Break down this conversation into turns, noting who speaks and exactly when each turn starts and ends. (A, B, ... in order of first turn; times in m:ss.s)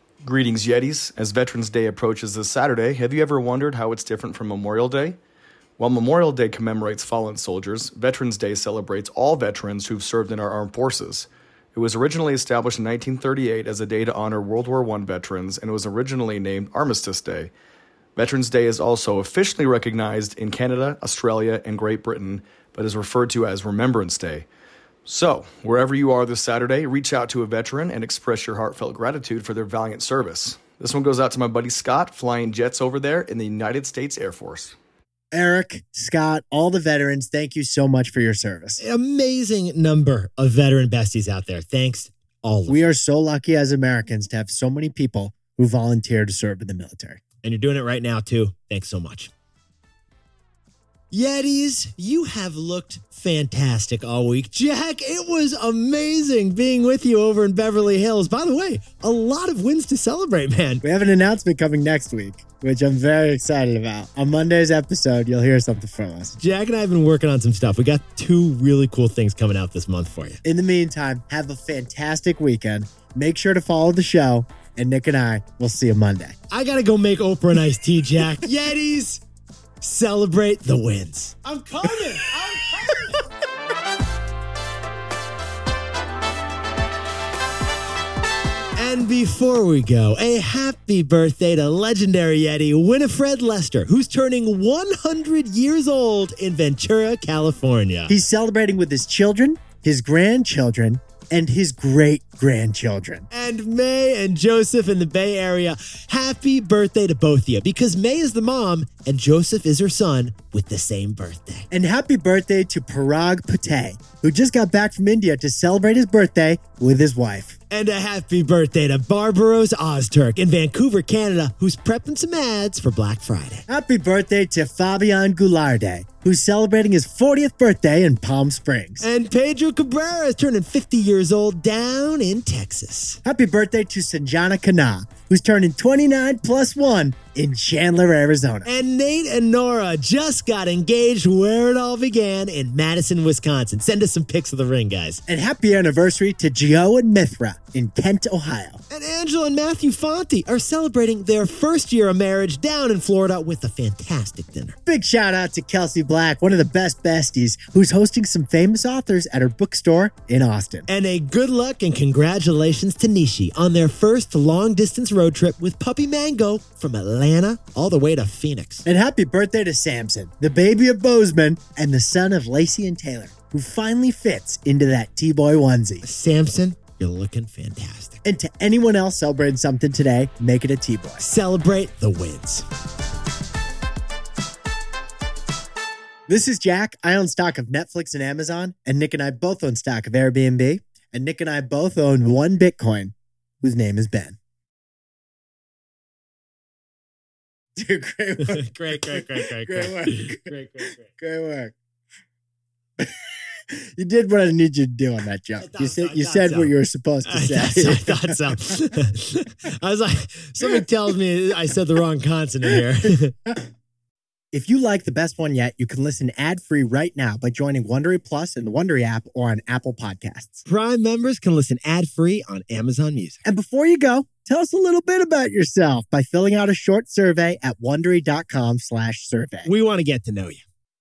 0:00.2-0:05.2 A
0:05.8-0:17.5 A
0:18.2-0:24.5 A
0:25.1-0:34.8 A
0:35.3-0:38.8 B
0:38.8-0:42.8 C
0:42.7-0:47.2 B
0:47.4-0:49.3 C
0:51.1-1:00.8 C
1:00.8-1:06.4 B
1:06.4-1:10.4 C
1:10.4-1:16.4 B
1:16.5-1:19.2 C
1:19.8-1:23.1 C
1:28.8-1:38.1 C
1:38.1-1:43.3 B
1:43.3-1:51.7 C
1:51.7-1:57.6 B
1:57.7-2:03.7 C
2:03.7-2:09.1 B
2:09.0-2:13.2 C
2:13.2-2:18.7 B
2:18.7-2:25.2 C
2:25.3-2:28.8 B
2:28.9-2:34.8 C
2:34.9-2:40.9 B
2:40.9-2:48.8 C
2:48.9-2:56.0 B
2:56.0-2:58.2 C
2:58.2-3:01.3 B
3:01.2-3:02.7 C
3:06.3-3:14.4 B
3:17.8-3:21.7 B
3:18.4-3:21.1 C
3:23.7-3:28.4 B
3:25.6-3:26.7 C
3:27.2-3:33.4 C
3:34.5-3:40.6 B
3:40.7-3:43.4 C
3:43.4-3:49.7 B
3:49.6-3:50.6 C